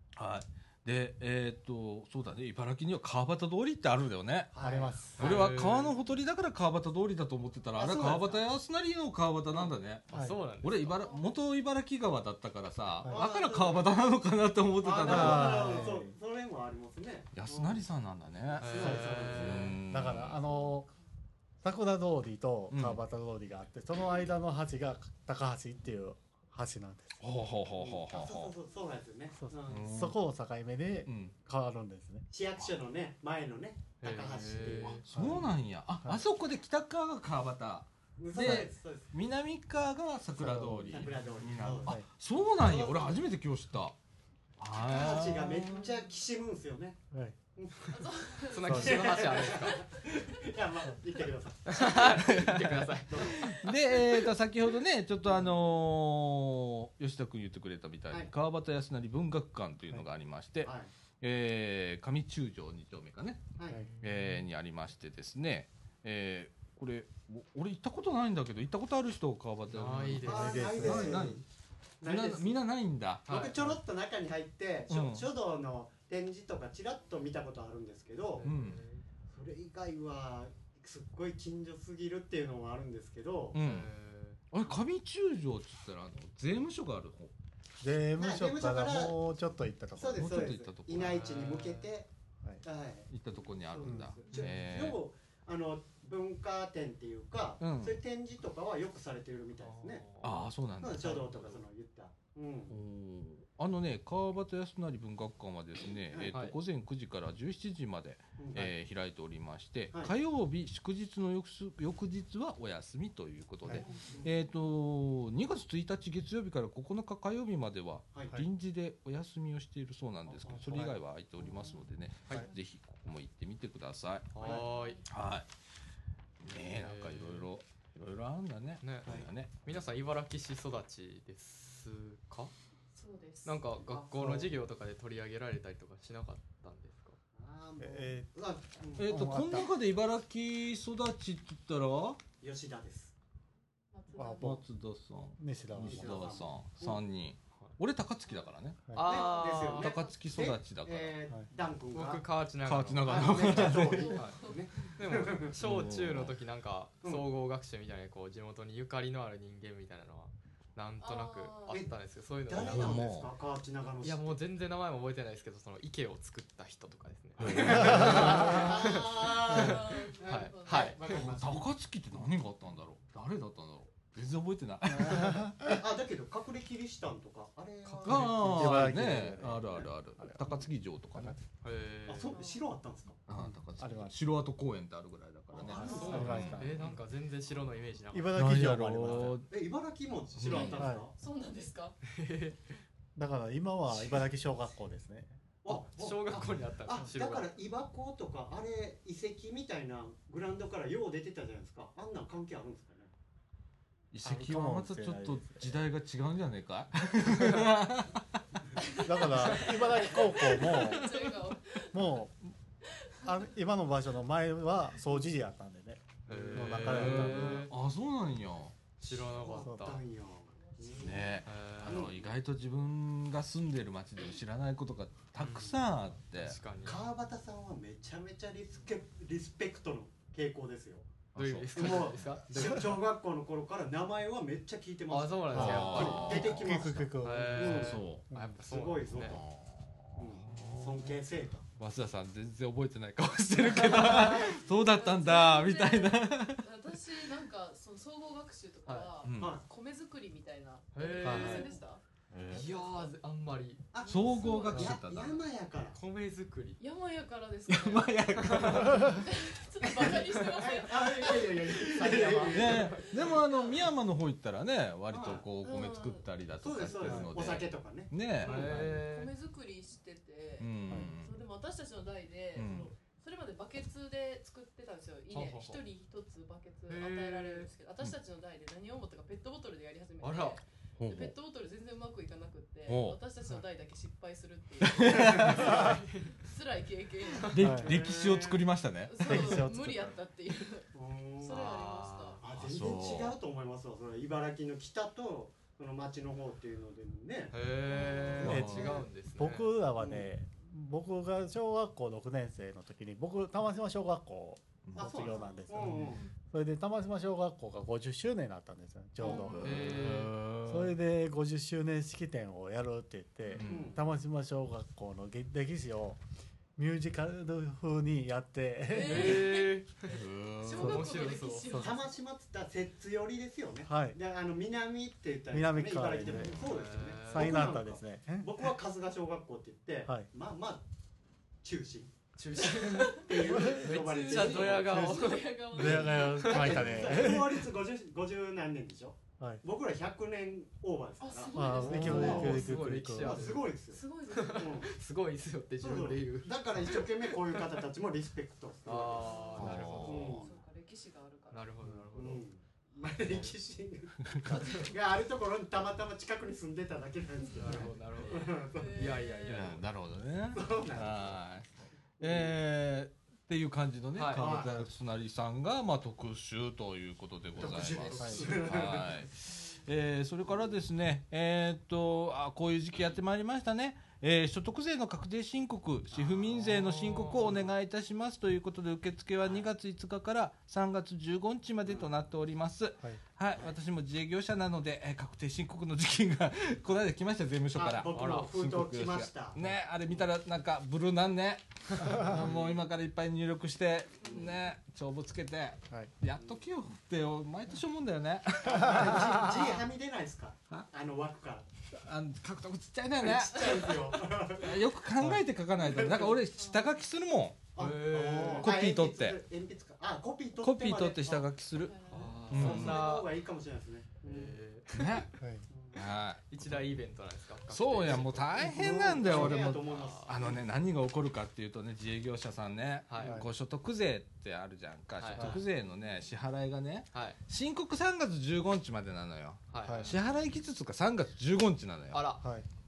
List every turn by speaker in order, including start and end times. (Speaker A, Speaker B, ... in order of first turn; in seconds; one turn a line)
Speaker A: 0.1-4.5
Speaker B: 4.5-5.5
Speaker C: 4.6-5.2
Speaker A: 5.0-15.8
Speaker D: 5.2-5.9
Speaker B: 7.8-8.4
Speaker D: 9.5-11.1
Speaker B: 13.1-13.9
Speaker B: 14.8-17.8
Speaker C: 15.0-16.1
Speaker A: 17.3-20.4
Speaker B: 18.5-19.8
Speaker D: 18.6-19.7
Speaker C: 18.8-20.9
Speaker E: 20.4-20.9
Speaker C: 21.6-27.2
Speaker A: 22.7-23.0
Speaker A: 27.2-28.5
Speaker B: 27.8-29.9
Speaker C: 29.4-32.2
Speaker A: 29.7-30.2
Speaker A: 31.1-31.3
Speaker B: 32.3-35.0
Speaker D: 34.0-35.0
Speaker A: 34.8-43.9
Speaker C: 35.1-35.5
Speaker B: 38.2-39.1
Speaker C: 38.3-38.7
Speaker C: 40.4-41.1
Speaker B: 40.9-42.0
Speaker B: 42.6-43.2
Speaker A: 44.6-46.0
Speaker B: 44.7-47.0
Speaker C: 47.1-47.4
Speaker B: 47.5-47.9
Speaker E: 47.9-48.7
Speaker D: 48.5-49.8
Speaker B: 48.6-53.7
Speaker C: 48.6-49.1
Speaker D: 51.6-53.6
Speaker A: 52.2-63.4
Speaker B: 55.2-55.5
Speaker B: 60.6-60.9
Speaker D: 63.7-64.4
Speaker A: 64.0-71.4
Speaker D: 69.7-70.7
Speaker B: 70.2-71.4
Speaker C: 70.3-71.4
Speaker B: 72.0-72.5
Speaker A: 72.0-73.3
Speaker D: 73.2-73.5
Speaker B: 73.3-78.5
Speaker A: 74.9-75.3
Speaker D: 78.4-79.0
Speaker A: 78.4-78.8
Speaker B: 79.3-83.6
Speaker A: 83.5-83.9
Speaker D: 83.6-84.4
Speaker A: 84.5-87.3
Speaker C: 87.8-90.4
Speaker B: 88.2-89.2
Speaker B: 90.0-92.1
Speaker A: 90.2-91.3
Speaker D: 91.0-91.9
Speaker B: 92.6-100.0
Speaker A: 93.1-95.0
Speaker C: 93.8-94.1
Speaker A: 97.6-98.0
Speaker D: 99.6-100.4
Speaker A: 100.2-101.6
Speaker B: 100.8-102.8
Speaker A: 102.7-124.6
Speaker B: 108.4-108.7
Speaker B: 113.6-114.3
Speaker D: 113.8-114.2
Speaker E: 113.8-114.1
Speaker B: 120.3-121.0
Speaker D: 124.3-125.0
Speaker B: 124.4-124.6
Speaker E: 124.6-125.0
Speaker A: 125.1-125.5
Speaker A: 126.4-129.7
Speaker D: 126.7-127.5
Speaker D: 128.8-129.1
Speaker D: 129.6-132.5
Speaker E: 132.9-134.1
Speaker D: 133.4-137.2
Speaker C: 134.1-134.5
Speaker B: 137.3-139.2
Speaker C: 137.8-138.3
Speaker A: 139.0-142.2
Speaker C: 139.0-139.7
Speaker B: 142.4-143.1
Speaker E: 143.9-144.6
Speaker C: 144.1-144.6
Speaker A: 144.4-148.8
Speaker C: 145.4-146.3
Speaker B: 145.8-147.0
Speaker D: 148.9-150.0
Speaker B: 149.0-152.2
Speaker A: 149.7-151.1
Speaker D: 151.9-163.0
Speaker A: 152.7-154.2
Speaker B: 153.0-155.5
Speaker E: 153.7-154.6
Speaker A: 155.5-156.3
Speaker E: 161.0-161.8
Speaker B: 162.5-164.4
Speaker A: 162.5-163.3
Speaker D: 164.0-171.3
Speaker A: 167.4-168.6
Speaker B: 167.5-171.7
Speaker C: 167.8-168.6
Speaker E: 169.5-171.0
Speaker A: 171.1-175.5
Speaker C: 175.0-175.7
Speaker B: 175.1-178.8
Speaker D: 177.8-178.5
Speaker A: 178.0-181.4
Speaker C: 178.4-180.4
Speaker C: 181.1-181.4
Speaker D: 181.6-182.4
Speaker B: 182.1-183.2
Speaker E: 182.3-182.6
Speaker A: 183.3-186.7
Speaker C: 183.8-184.1
Speaker B: 185.5-187.0
Speaker E: 185.7-186.2
Speaker D: 185.8-188.4
Speaker C: 186.1-186.8
Speaker C: 188.1-189.4
Speaker A: 188.3-189.5
Speaker B: 189.5-191.2
Speaker A: 190.4-190.8
Speaker E: 190.4-192.0
Speaker C: 190.8-191.1
Speaker D: 192.0-192.8
Speaker C: 193.2-195.4
Speaker B: 195.6-203.1
Speaker D: 195.7-197.5
Speaker A: 204.1-208.4
Speaker C: 204.2-205.8
Speaker E: 208.8-212.2
Speaker C: 209.0-211.1
Speaker C: 211.9-212.5
Speaker E: 212.9-213.4
Speaker C: 213.2-217.7
Speaker D: 216.3-217.7
Speaker B: 216.3-217.1
Speaker A: 216.6-218.8
Speaker D: 219.0-220.0
Speaker B: 219.1-222.2
Speaker C: 219.6-220.0
Speaker A: 221.0-226.6
Speaker D: 221.4-222.1
Speaker D: 225.4-227.0
Speaker B: 225.5-225.7
Speaker B: 226.8-231.1
Speaker A: 231.3-232.3
Speaker D: 231.3-232.9
Speaker B: 231.7-238.0
Speaker D: 235.1-236.6
Speaker A: 235.5-236.9
Speaker C: 235.5-238.5
Speaker D: 237.2-239.4
Speaker A: 237.6-238.2
Speaker B: 238.6-239.4
Speaker A: 239.2-241.2
Speaker B: 240.2-241.6
Speaker A: 241.8-247.1
Speaker B: 243.6-244.5
Speaker E: 243.7-252.0
Speaker D: 248.8-249.1
Speaker A: 249.2-249.5
Speaker B: 249.4-249.6
Speaker D: 250.9-251.7
Speaker C: 251.2-251.6
Speaker B: 251.2-251.8
Speaker A: 252.3-252.7
Speaker D: 252.5-253.8
Speaker B: 253.9-256.0
Speaker E: 254.0-254.8
Speaker A: 254.1-255.4
Speaker D: 255.9-256.8
Speaker E: 256.8-261.9
Speaker A: 257.7-259.2
Speaker D: 258.4-258.9
Speaker B: 259.9-263.2
Speaker A: 261.2-268.6
Speaker D: 261.8-263.3
Speaker E: 263.0-263.7
Speaker B: 265.1-265.4
Speaker E: 265.6-266.2
Speaker B: 266.6-268.9
Speaker C: 267.0-267.3
Speaker D: 268.4-269.3
Speaker E: 268.5-287.6
Speaker A: 270.6-271.4
Speaker A: 272.5-272.9
Speaker D: 275.3-275.8
Speaker D: 276.9-277.7
Speaker D: 280.2-280.6
Speaker A: 281.0-281.3
Speaker A: 282.9-283.2
Speaker A: 284.8-285.6
Speaker D: 285.4-286.4
Speaker A: 287.5-289.6
Speaker C: 287.6-288.0
Speaker B: 287.8-288.6
Speaker E: 289.1-292.4
Speaker C: 289.2-290.1
Speaker B: 290.9-291.6
Speaker D: 291.4-292.4
Speaker B: 292.4-297.6
Speaker A: 292.4-293.4
Speaker D: 297.5-299.7
Speaker E: 297.9-298.7
Speaker A: 298.4-299.0
Speaker C: 298.4-316.2
Speaker B: 300.0-300.3
Speaker B: 305.0-306.2
Speaker A: 305.8-306.1
Speaker D: 305.9-306.2
Speaker E: 309.2-309.5
Speaker A: 309.3-310.9
Speaker D: 309.6-310.3
Speaker A: 313.6-313.9
Speaker B: 313.6-314.0
Speaker C: 316.8-319.4
Speaker E: 318.9-319.8
Speaker D: 319.0-321.8
Speaker A: 320.1-321.2
Speaker E: 320.6-322.1
Speaker C: 320.7-321.1
Speaker C: 321.7-321.9
Speaker B: 321.8-330.8
Speaker C: 323.9-324.2
Speaker C: 325.5-326.6
Speaker A: 326.3-326.6
Speaker D: 326.6-327.8
Speaker C: 327.2-328.7
Speaker B: 331.6-335.4
Speaker D: 332.4-337.1
Speaker E: 332.8-337.2
Speaker C: 333.5-333.9
Speaker C: 335.7-337.7
Speaker B: 336.5-344.0
Speaker E: 341.2-342.7
Speaker C: 341.5-343.6
Speaker D: 341.9-343.7
Speaker E: 343.9-344.8
Speaker D: 344.3-347.8
Speaker B: 344.6-344.9
Speaker B: 345.8-350.6
Speaker D: 348.8-350.5
Speaker E: 349.2-351.7
Speaker A: 349.6-350.4
Speaker D: 351.5-352.4
Speaker B: 352.1-359.0
Speaker D: 353.2-353.6
Speaker E: 354.4-354.9
Speaker D: 354.5-354.9
Speaker D: 357.5-359.8
Speaker E: 358.7-359.6
Speaker A: 359.5-399.8
Speaker B: 360.5-362.5
Speaker D: 364.1-364.6
Speaker B: 364.4-364.8
Speaker C: 364.5-364.9
Speaker B: 367.6-369.2
Speaker D: 367.8-368.2
Speaker C: 368.2-368.8
Speaker D: 376.6-377.6
Speaker B: 379.4-379.7
Speaker B: 387.7-389.6
Speaker D: 388.1-388.5
Speaker C: 392.1-392.5
Speaker B: 392.2-392.6
Speaker B: 394.2-394.5
Speaker B: 398.6-401.7
Speaker A: 401.9-407.6
Speaker B: 403.2-404.8
Speaker B: 405.8-406.4
Speaker B: 407.7-411.5
Speaker D: 407.8-408.7
Speaker A: 408.6-409.4
Speaker A: 410.6-413.1
Speaker E: 411.8-412.4
Speaker D: 412.1-413.3
Speaker B: 412.5-414.5
Speaker D: 414.2-415.3
Speaker A: 414.9-415.3
Speaker C: 415.4-415.6
Speaker A: 415.9-416.4
Speaker D: 416.5-420.4
Speaker A: 417.7-432.3
Speaker B: 418.1-420.7
Speaker D: 423.1-423.4
Speaker D: 425.2-425.6
Speaker D: 427.1-427.4
Speaker D: 429.7-430.2
Speaker C: 429.8-430.1
Speaker D: 432.1-432.4
Speaker C: 432.4-432.7